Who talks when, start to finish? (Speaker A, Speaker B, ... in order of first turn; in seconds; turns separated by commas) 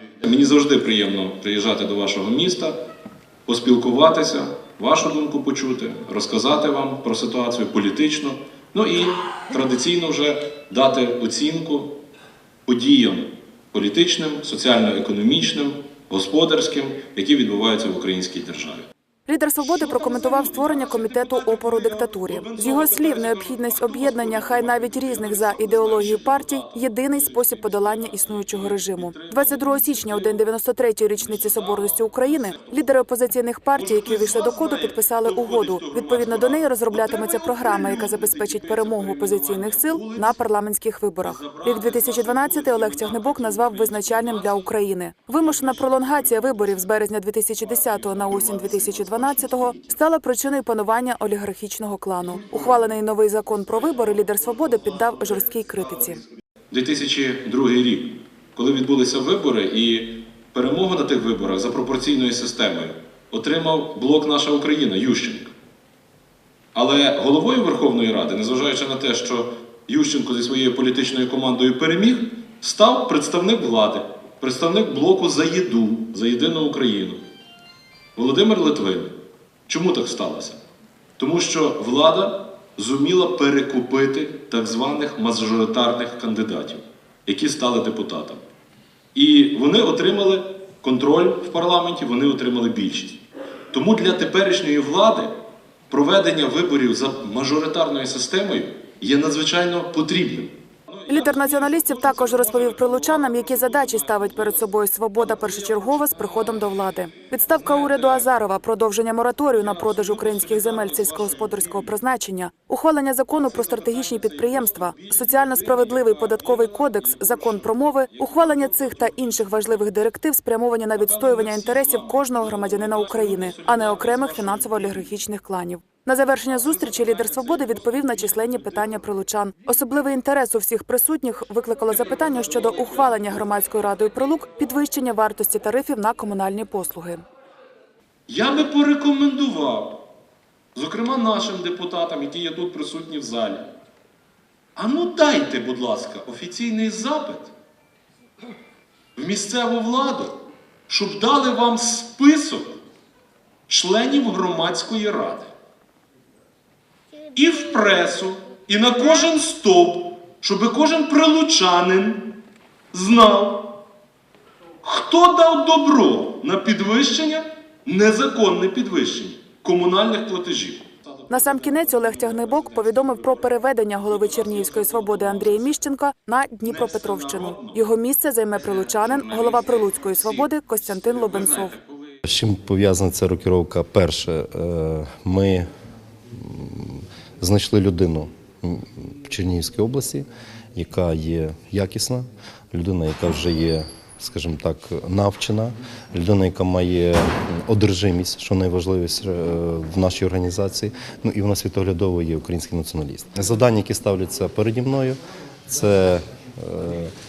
Speaker A: 0.2-2.8, Speaker A: 3.5-11.9, Speaker A: 12.7-18.9, Speaker B: 19.3-56.2, Speaker A: 19.6-30.4, Speaker A: 31.2-33.0, Speaker A: 33.7-40.4, Speaker A: 41.2-44.7, Speaker A: 45.4-46.8, Speaker A: 47.6-49.9, Speaker A: 52.2-52.9, Speaker A: 53.7-55.4, Speaker A: 56.7-65.5, Speaker A: 66.7-77.2, Speaker A: 78.2-79.1, Speaker A: 79.7-80.6, Speaker A: 81.2-88.4, Speaker A: 89.1-95.4, Speaker A: 95.9-108.3, Speaker B: 101.1-137.2, Speaker A: 109.6-111.9, Speaker A: 113.4-119.4, Speaker A: 121.0-125.1, Speaker A: 126.4-129.1, Speaker A: 131.9-133.4, Speaker A: 138.3-140.0, Speaker A: 140.7-143.7, Speaker A: 144.8-147.5, Speaker A: 149.2-152.8, Speaker A: 153.7-155.5, Speaker A: 157.3-162.3, Speaker A: 162.9-163.7, Speaker A: 164.8-175.8, Speaker B: 171.3-181.8, Speaker A: 176.6-177.8, Speaker A: 178.6-182.2, Speaker C: 182.2-185.7, Speaker C: 186.3-207.1